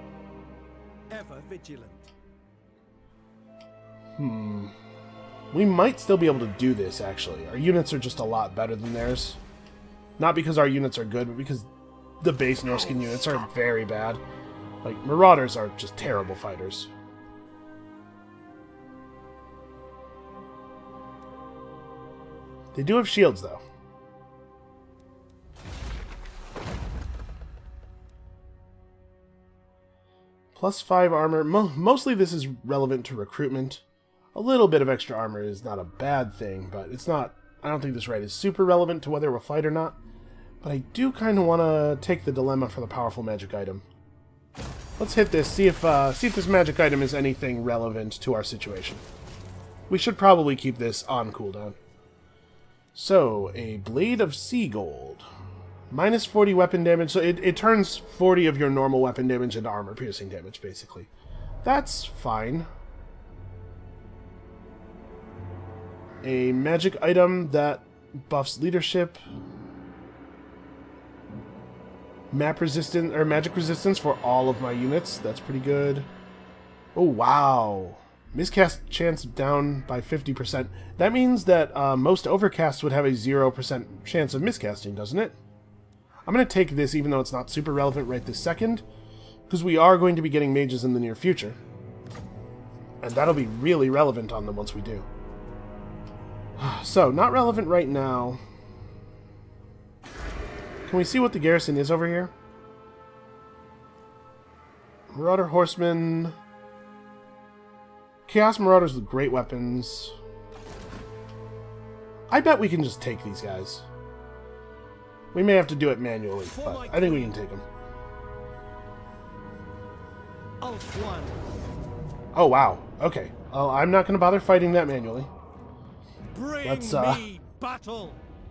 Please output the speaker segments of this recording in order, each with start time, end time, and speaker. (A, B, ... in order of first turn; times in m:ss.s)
0:01.1-0:02.1 A
0:04.2-0:04.7 B
0:05.5-0:09.4 B
0:10.2-0:11.7 B
0:12.2-0:14.2 B
0:14.8-0:16.9 B
0:22.7-0:23.6 B
0:30.5-0:33.8 B
0:34.3-0:40.0 B
0:40.6-0:43.8 B
0:45.0-0:49.0 B
0:49.9-0:51.8 B
0:52.9-0:55.2 B
0:55.9-1:01.1 B
1:01.6-1:02.7 B
1:06.2-1:09.2 B
1:12.3-1:16.1 B
1:16.9-1:25.4 B
1:26.3-1:28.8 B
1:29.5-1:31.6 B
1:33.0-1:35.1 B
1:36.6-1:38.4 B
1:40.8-1:42.3 B
1:45.1-1:46.4 B
1:48.3-1:50.1 B
1:52.3-1:53.8 B
1:55.3-1:57.6 B
1:56.4-1:57.4 A
2:00.6-2:01.5 A
2:02.3-2:05.3 B
2:06.3-2:08.2 A
2:06.6-2:07.2 B